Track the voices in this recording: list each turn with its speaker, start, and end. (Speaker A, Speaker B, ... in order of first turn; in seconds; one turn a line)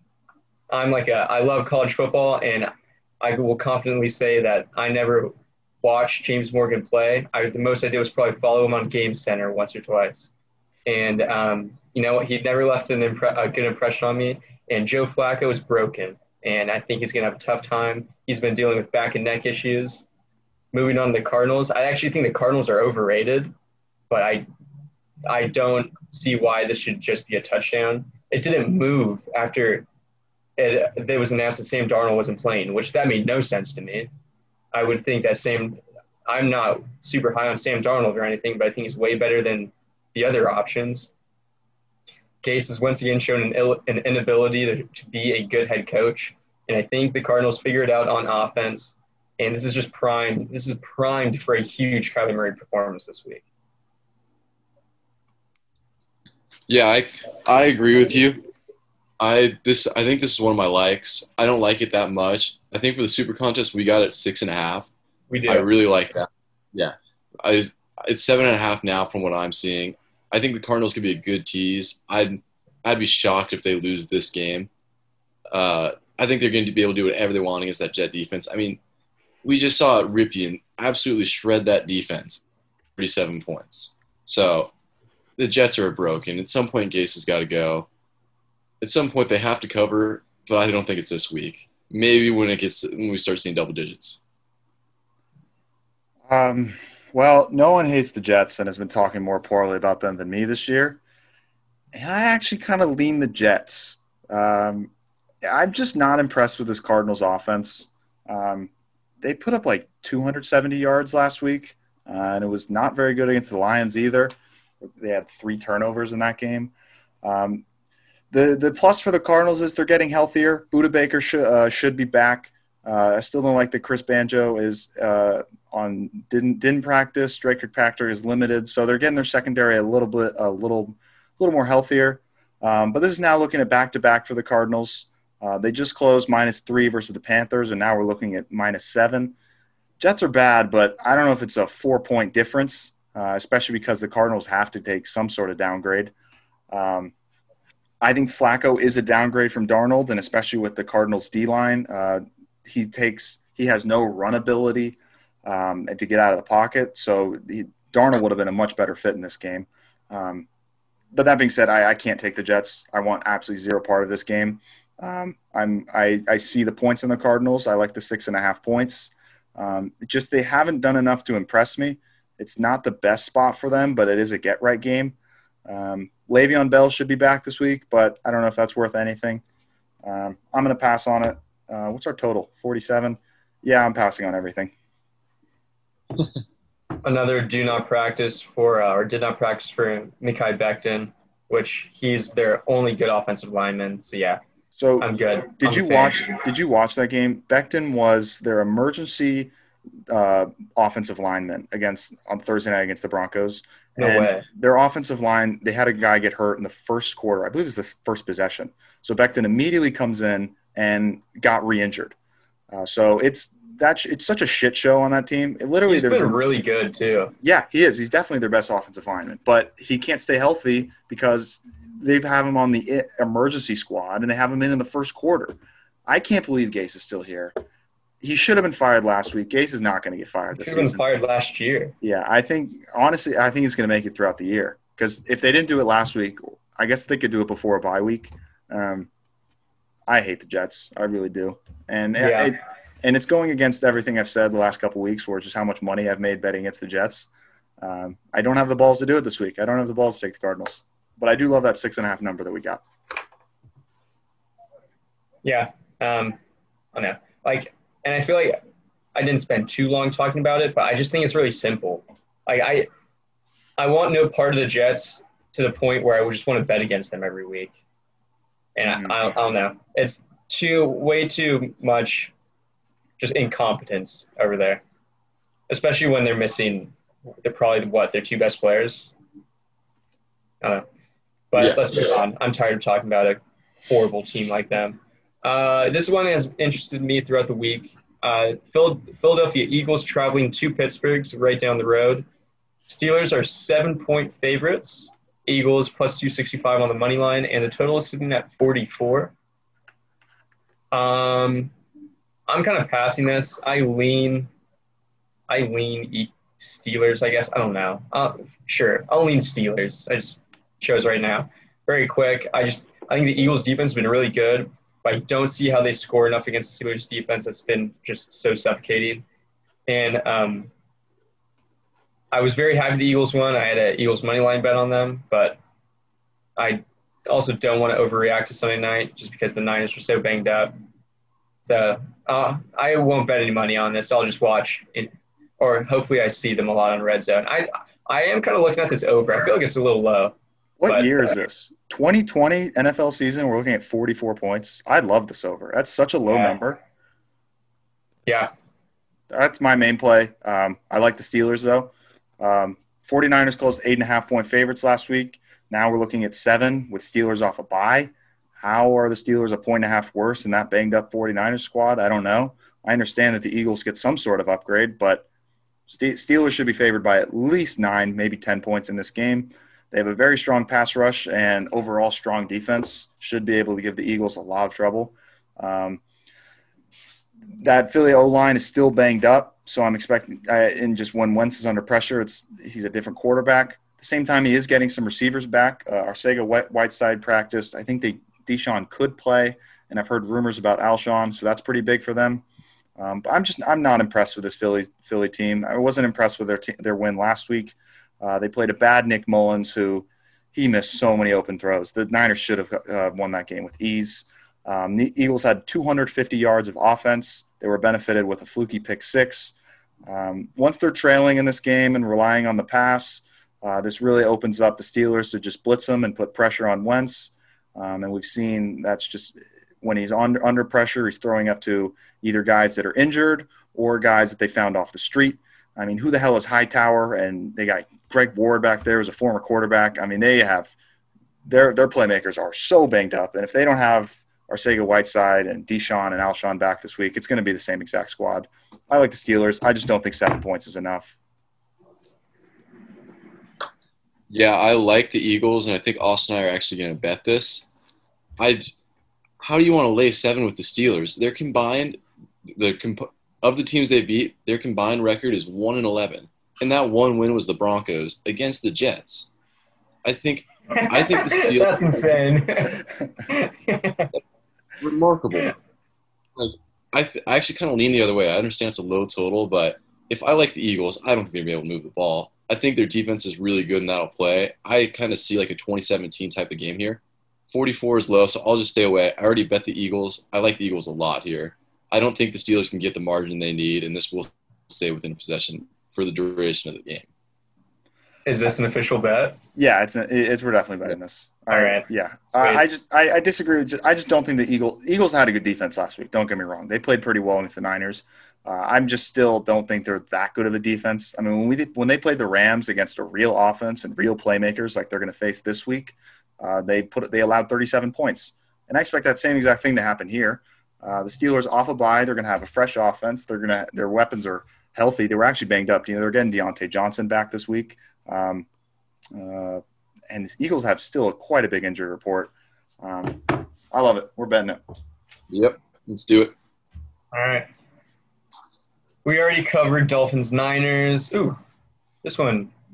Speaker A: 0.7-10.3
Speaker A: 10.9-20.1
Speaker A: 20.7-23.5
Speaker A: 24.1-24.5
Speaker A: 25.3-29.9
Speaker A: 30.6-34.1
Speaker A: 34.7-41.1
Speaker A: 42.4-53.4
Speaker B: 56.7-58.5
Speaker B: 59.2-64.9
Speaker A: 65.3-65.7
Speaker B: 65.5-74.7
Speaker B: 75.5-78.8
Speaker B: 79.4-82.4
Speaker B: 83.0-84.7
Speaker B: 85.4-87.9
Speaker B: 88.8-94.2
Speaker C: 96.3-101.0
Speaker C: 101.9-104.9
Speaker C: 105.4-114.3
Speaker C: 114.9-117.6
Speaker C: 118.3-139.3
Speaker C: 140.0-146.1
Speaker C: 146.7-147.1
Speaker C: 148.0-160.5
Speaker C: 161.1-179.4
Speaker C: 180.0-184.7
Speaker A: 187.0-194.4
Speaker C: 194.8-199.5
Speaker A: 195.0-196.3
Speaker C: 200.1-212.2
Speaker A: 204.0-204.5
Speaker C: 212.7-216.4
Speaker A: 215.9-217.3
Speaker C: 217.4-227.6
Speaker C: 228.2-231.0
Speaker A: 230.5-231.9
Speaker C: 232.0-239.1
Speaker C: 240.1-252.8
Speaker A: 242.2-242.5
Speaker A: 255.4-256.4
Speaker A: 256.9-258.6
Speaker A: 259.1-262.9
Speaker A: 263.8-267.8
Speaker A: 268.8-272.3
Speaker C: 268.9-269.2
Speaker A: 273.2-274.8
Speaker A: 275.7-279.1
Speaker A: 281.5-292.2
Speaker B: 281.6-282.0
Speaker A: 292.9-299.4
Speaker A: 300.9-301.7
Speaker A: 302.5-304.5
Speaker A: 305.5-319.2
Speaker A: 319.9-320.7
Speaker A: 322.3-325.6
Speaker A: 326.6-330.7
Speaker A: 331.6-340.4
Speaker C: 340.8-346.8
Speaker A: 340.9-341.4
Speaker A: 346.3-346.6
Speaker C: 349.3-365.3
Speaker C: 365.9-376.0
Speaker C: 377.5-392.4
Speaker C: 393.0-409.6
Speaker C: 410.1-430.8
Speaker C: 431.5-441.2
Speaker B: 444.3-447.6
Speaker B: 448.4-448.7
Speaker B: 449.4-459.3
Speaker B: 460.0-461.8
Speaker A: 460.7-464.1
Speaker B: 464.8-465.6
Speaker B: 466.4-487.1
Speaker A: 488.3-489.4
Speaker C: 489.6-518.5
Speaker A: 491.5-491.9
Speaker A: 492.4-492.6
Speaker C: 519.1-524.6
Speaker B: 525.3-526.3
Speaker A: 527.1-527.5
Speaker A: 529.0-531.4
Speaker A: 532.0-532.5